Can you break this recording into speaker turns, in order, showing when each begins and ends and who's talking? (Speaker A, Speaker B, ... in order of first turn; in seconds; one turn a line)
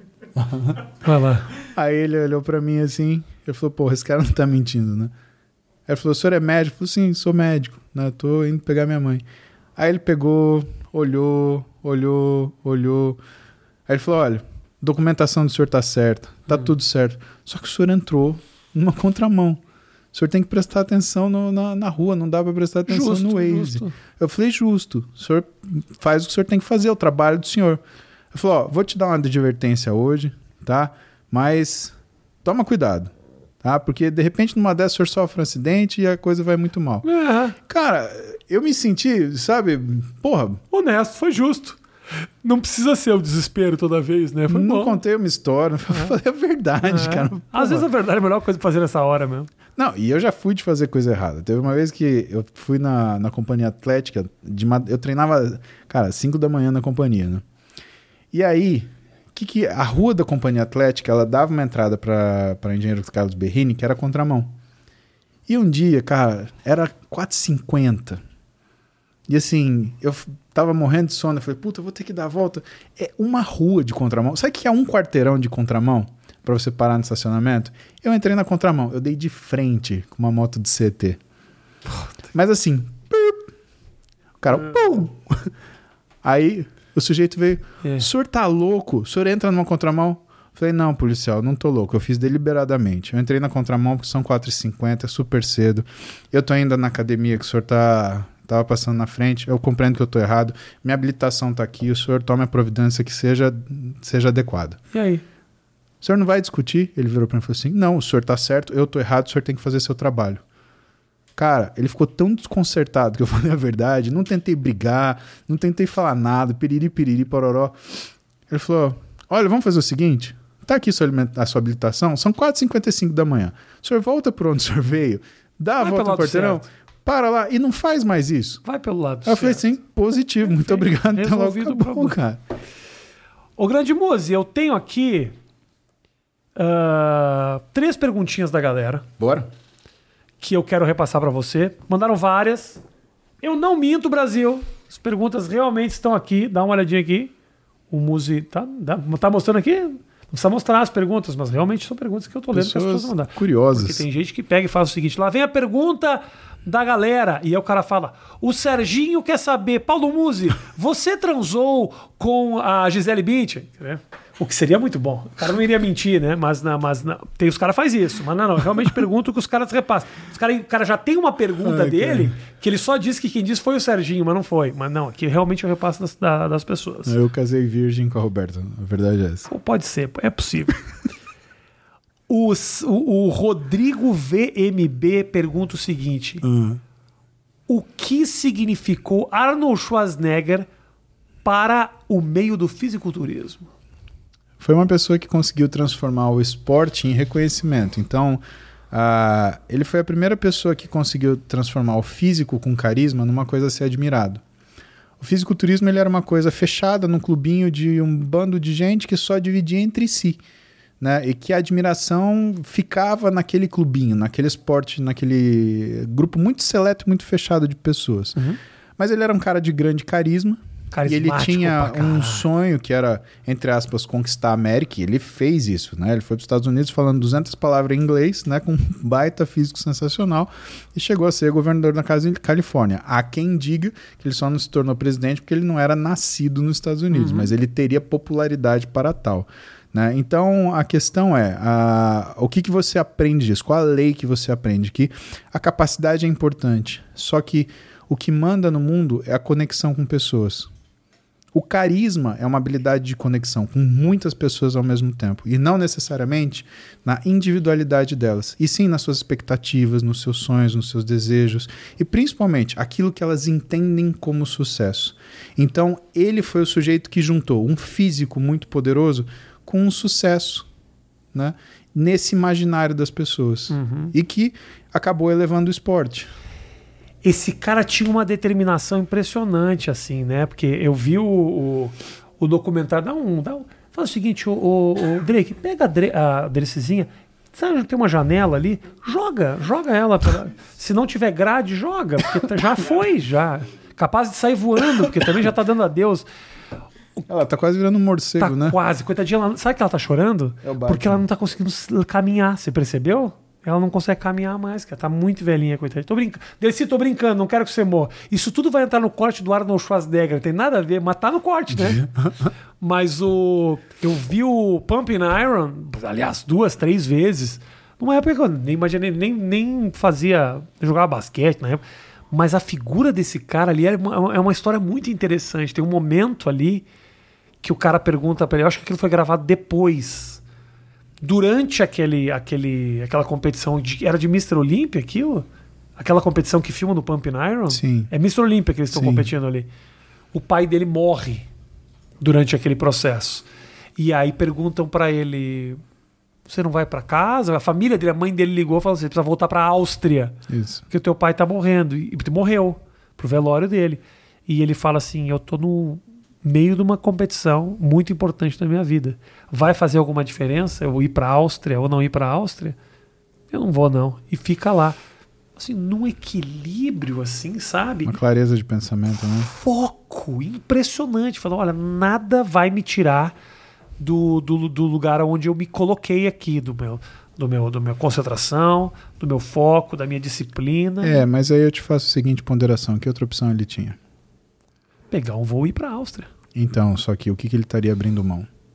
Speaker A: 0.3-0.8
Speaker B: 1.0-1.5
Speaker A: 1.6-5.1
Speaker A: 5.9-9.2
Speaker A: 9.8-13.2
Speaker A: 13.9-19.6
Speaker A: 20.1-27.8
Speaker B: 22.9-23.9
Speaker A: 28.3-33.1
Speaker A: 33.6-37.0
Speaker B: 37.0-37.5
Speaker A: 37.6-40.6
Speaker B: 40.7-41.8
Speaker B: 42.4-45.0
Speaker A: 44.5-47.9
Speaker B: 46.8-49.5
Speaker A: 49.8-57.4
Speaker A: 58.3-64.5
Speaker A: 65.5-68.2
Speaker A: 69.3-81.2
Speaker B: 81.9-82.1
Speaker A: 82.3-83.5
Speaker A: 84.4-85.5
Speaker A: 86.2-104.8
Speaker B: 87.8-88.1
Speaker B: 104.9-105.2
Speaker A: 106.0-110.4
Speaker A: 111.3-117.8
Speaker A: 118.5-128.6
Speaker B: 125.8-126.6
Speaker B: 128.6-129.6
Speaker A: 129.2-132.4
Speaker B: 130.4-132.2
Speaker B: 133.6-135.3
Speaker B: 136.6-139.1
Speaker A: 139.2-139.5
Speaker B: 140.4-142.8
Speaker B: 143.4-147.3
Speaker B: 147.9-177.2
Speaker A: 152.5-154.0
Speaker A: 171.6-172.3
Speaker A: 177.1-179.5
Speaker B: 179.5-180.8
Speaker B: 182.3-186.4
Speaker A: 186.4-186.8
Speaker B: 187.7-190.7
Speaker B: 191.4-193.7
Speaker A: 194.6-204.4
Speaker A: 205.2-210.4
Speaker A: 211.0-218.4
Speaker A: 219.0-250.7
Speaker B: 220.9-222.4
Speaker B: 237.1-237.5
Speaker A: 251.5-270.7
Speaker A: 271.3-276.3
Speaker B: 273.7-274.1
Speaker B: 277.2-296.2
Speaker A: 297.3-298.8
Speaker B: 298.4-312.1
Speaker A: 300.6-301.2
Speaker A: 311.8-312.5
Speaker B: 312.8-326.9
Speaker B: 327.6-330.4
Speaker B: 331.2-339.7
Speaker A: 337.7-338.1
Speaker A: 338.9-339.3
Speaker B: 340.3-341.5
Speaker B: 342.2-343.4
Speaker B: 344.0-345.8
Speaker B: 346.5-362.8
Speaker A: 350.5-350.8
Speaker B: 363.5-365.0
Speaker B: 365.6-368.1
Speaker A: 368.1-369.5
Speaker B: 369.4-373.3
Speaker B: 374.0-381.2
Speaker A: 381.0-384.0
Speaker B: 385.1-386.3
Speaker A: 386.5-388.5